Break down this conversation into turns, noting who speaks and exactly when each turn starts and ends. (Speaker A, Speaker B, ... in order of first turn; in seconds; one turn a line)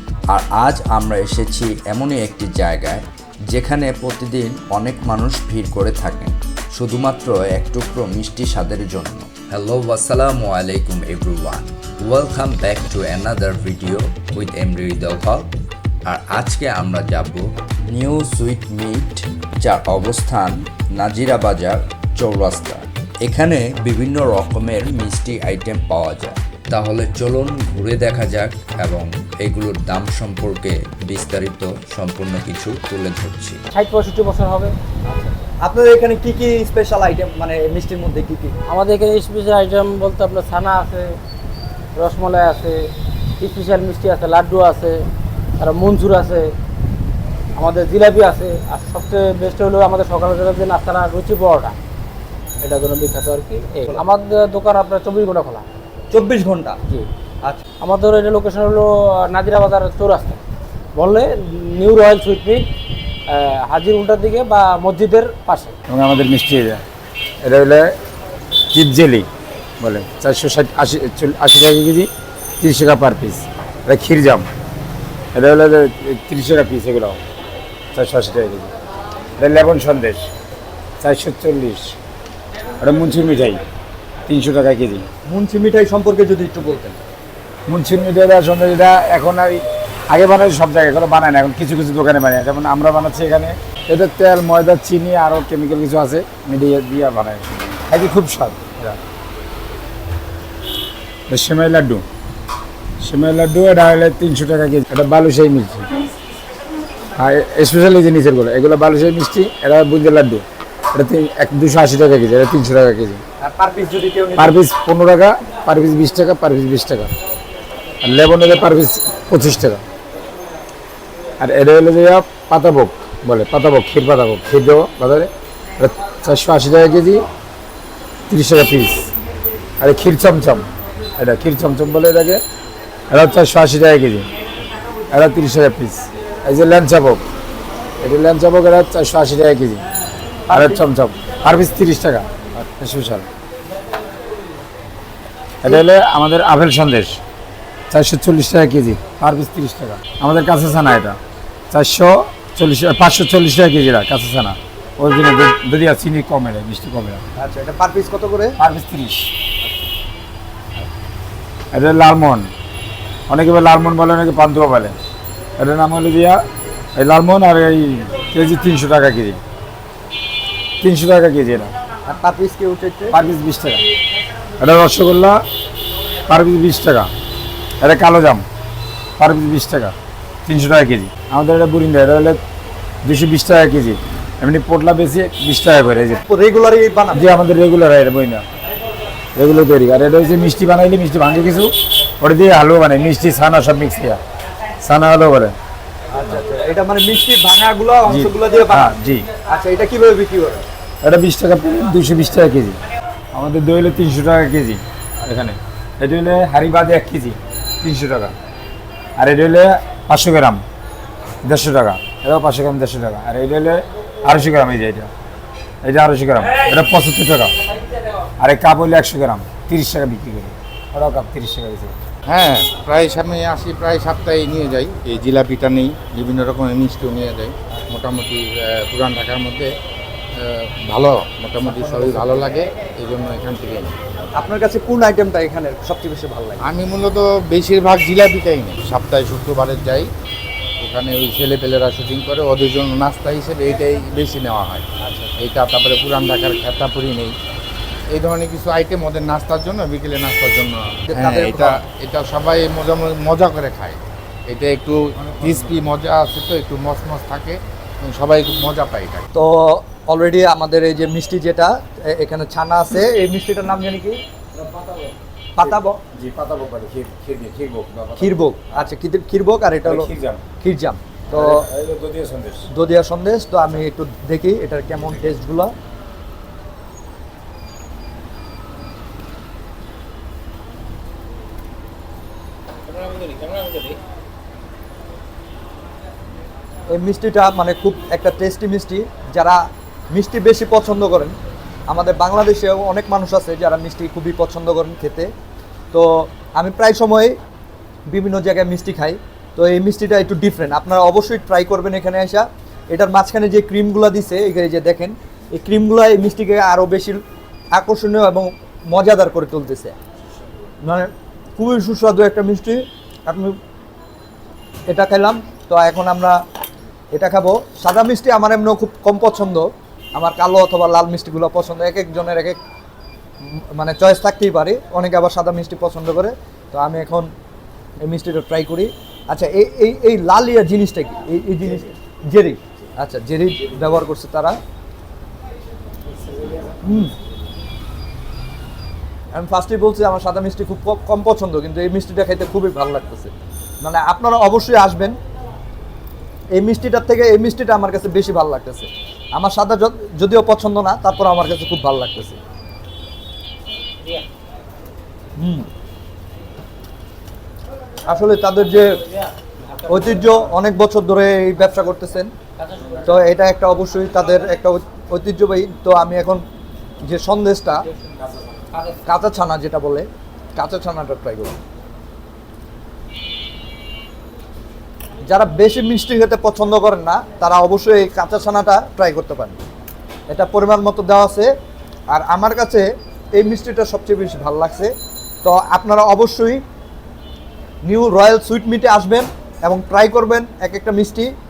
Speaker A: 0.3-15.5
Speaker A: 16.1-33.6
Speaker B: 33.7-34.8
Speaker C: 35.1-38.5
Speaker B: 38.7-41.2
Speaker B: 42.0-45.1
Speaker B: 45.6-46.5
Speaker B: 47.6-51.8
Speaker B: 52.6-55.7
Speaker C: 56.1-56.8
Speaker B: 57.8-60.4
Speaker B: 61.0-62.6
Speaker B: 63.3-65.7
Speaker D: 65.9-66.8
Speaker D: 67.4-67.9
Speaker D: 68.7-69.3
Speaker D: 69.8-72.1
Speaker D: 72.6-74.5
Speaker D: 75.3-77.2
Speaker D: 77.9-78.7
Speaker D: 79.4-80.3
Speaker D: 81.0-81.9
Speaker D: 82.8-83.6
Speaker D: 84.3-85.0
Speaker C: 85.2-87.0
Speaker D: 87.7-99.0
Speaker D: 101.3-102.0
Speaker D: 103.0-106.0
Speaker D: 107.2-113.2
Speaker C: 113.4-114.6
Speaker D: 114.4-117.1
Speaker D: 118.0-119.8
Speaker D: 121.4-127.3
Speaker D: 128.3-129.1
Speaker D: 129.8-132.4
Speaker D: 133.1-134.3
Speaker D: 135.1-137.2
Speaker D: 138.0-139.8
Speaker C: 140.5-140.8
Speaker D: 140.5-143.3
Speaker D: 145.6-147.2
Speaker D: 147.9-151.2
Speaker D: 151.7-157.2
Speaker C: 157.4-158.6
Speaker D: 158.6-159.3
Speaker D: 161.7-162.5
Speaker D: 163.3-165.0
Speaker D: 165.6-166.4
Speaker D: 167.0-169.4
Speaker D: 170.8-171.7
Speaker C: 172.1-173.2
Speaker D: 173.1-173.8
Speaker D: 174.6-175.4
Speaker D: 176.3-177.1
Speaker D: 177.8-178.5
Speaker D: 179.2-179.9
Speaker D: 180.5-182.4
Speaker D: 183.0-186.2
Speaker C: 186.3-187.3
Speaker D: 187.1-188.5
Speaker D: 189.4-194.2
Speaker D: 194.8-195.6
Speaker C: 196.1-198.9
Speaker D: 198.1-199.3
Speaker C: 199.4-200.7
Speaker D: 201.0-202.8
Speaker D: 203.3-208.3
Speaker D: 209.2-210.6
Speaker D: 211.4-215.1
Speaker D: 215.8-217.6
Speaker D: 218.4-221.9
Speaker E: 222.3-229.7
Speaker E: 230.4-233.9
Speaker D: 231.8-232.5
Speaker C: 234.4-236.7
Speaker E: 236.6-240.1
Speaker E: 240.8-244.8
Speaker C: 245.0-245.3
Speaker E: 245.4-247.4
Speaker E: 248.1-259.3
Speaker C: 251.1-251.8
Speaker D: 255.3-255.7
Speaker C: 259.3-264.2
Speaker D: 264.5-268.4
Speaker C: 265.6-265.9
Speaker C: 268.2-270.1
Speaker D: 269.8-270.4
Speaker C: 270.6-271.7
Speaker D: 271.3-272.7
Speaker C: 272.7-275.7
Speaker E: 282.9-283.9
Speaker C: 286.9-289.6
Speaker C: 290.1-291.4
Speaker C: 291.9-295.3
Speaker C: 295.9-297.4
Speaker C: 298.1-307.2
Speaker C: 307.8-309.9
Speaker C: 310.8-313.5
Speaker C: 314.9-316.4
Speaker C: 317.1-322.6
Speaker C: 323.4-327.3
Speaker C: 328.0-334.6
Speaker D: 336.2-336.8
Speaker C: 336.8-337.1
Speaker C: 339.3-345.2
Speaker C: 346.6-352.4
Speaker C: 355.4-355.7
Speaker C: 358.1-359.0
Speaker C: 359.9-362.3
Speaker C: 363.1-366.4
Speaker C: 367.0-367.9
Speaker C: 369.1-371.6
Speaker C: 375.3-379.6
Speaker C: 380.3-381.5
Speaker C: 382.1-384.9
Speaker C: 385.4-386.6
Speaker C: 387.8-391.3